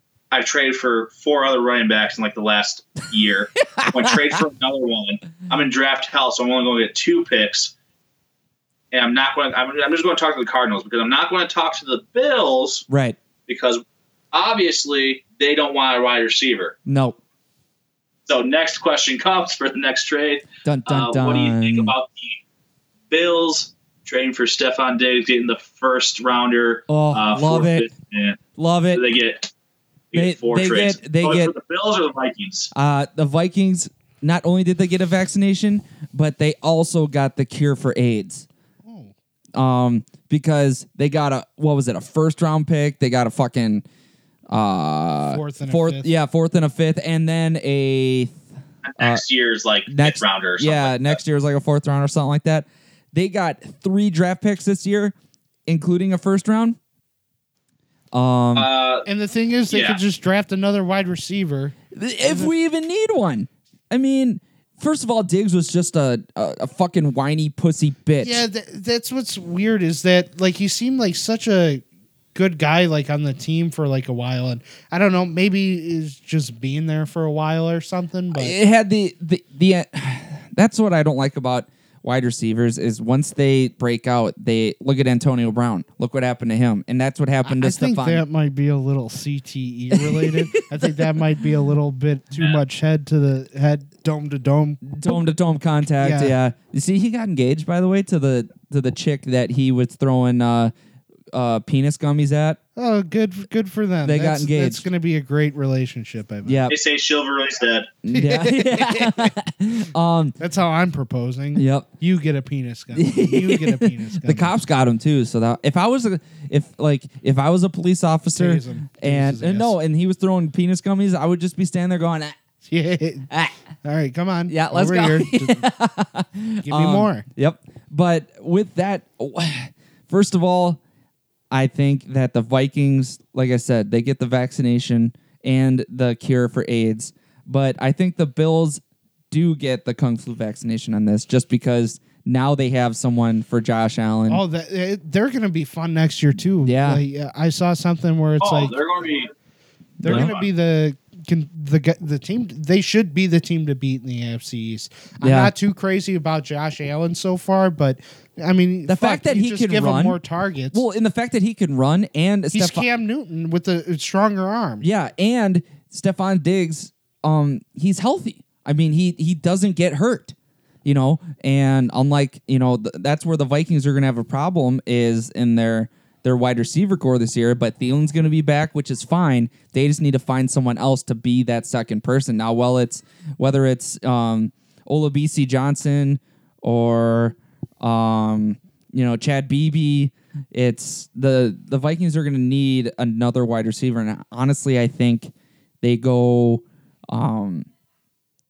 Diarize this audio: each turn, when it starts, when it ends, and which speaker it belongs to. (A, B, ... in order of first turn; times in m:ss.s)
0:00.3-0:07.7 A
0:03.7-0:04.1 B
0:08.9-0:12.8 A
0:12.9-0:13.2 B
0:13.5-0:16.8 A
0:16.9-0:17.2 B
0:18.3-0:22.4 A
0:20.6-0:21.9 B
0:23.1-0:28.4 A
0:26.9-0:27.9 B
0:28.6-0:29.0 B
0:28.9-0:29.5 A
0:30.1-0:32.7 A
0:30.1-0:31.5 B
0:32.7-0:38.5 B
0:38.8-0:39.1 C
0:39.6-0:43.8 B
0:44.5-0:48.4 B
0:45.3-0:46.1 C
0:48.8-0:51.2 A
0:49.9-0:55.2 B
0:55.7-0:56.8 B
0:58.1-0:58.7 B
0:58.6-0:59.1 A
0:59.1-1:02.5 C
0:59.7-1:00.0 A
1:01.9-1:08.4 B
1:08.2-1:11.8 C
1:12.4-1:18.6 C
1:18.3-1:28.2 B
1:27.4-1:35.2 C
1:29.9-1:31.1 B
1:34.8-1:40.7 B
1:36.0-1:36.4 C
1:41.3-1:42.6 B
1:42.8-1:46.6 C
1:44.0-1:44.8 B
1:46.5-1:46.8 B
1:46.7-1:47.9 A
1:48.0-1:50.4 B
1:48.1-1:49.3 C
1:50.4-1:54.5 C
1:51.6-1:51.9 B
1:52.9-2:02.4 B
1:58.4-1:59.8 C
2:02.6-2:03.3 C
2:03.8-2:05.6 C
2:04.5-2:10.8 B
2:06.6-2:07.2 C
2:11.5-2:24.4 B
2:24.3-2:28.7 C
2:26.6-2:27.0 B
2:28.4-2:29.3 A
2:30.0-2:30.3 B
2:30.0-2:40.8 C
2:30.0-2:30.5 A
2:35.2-2:35.5 B
2:38.9-2:40.2 B
2:40.7-2:42.9 B
2:42.5-2:44.9 C
2:44.8-3:17.7 B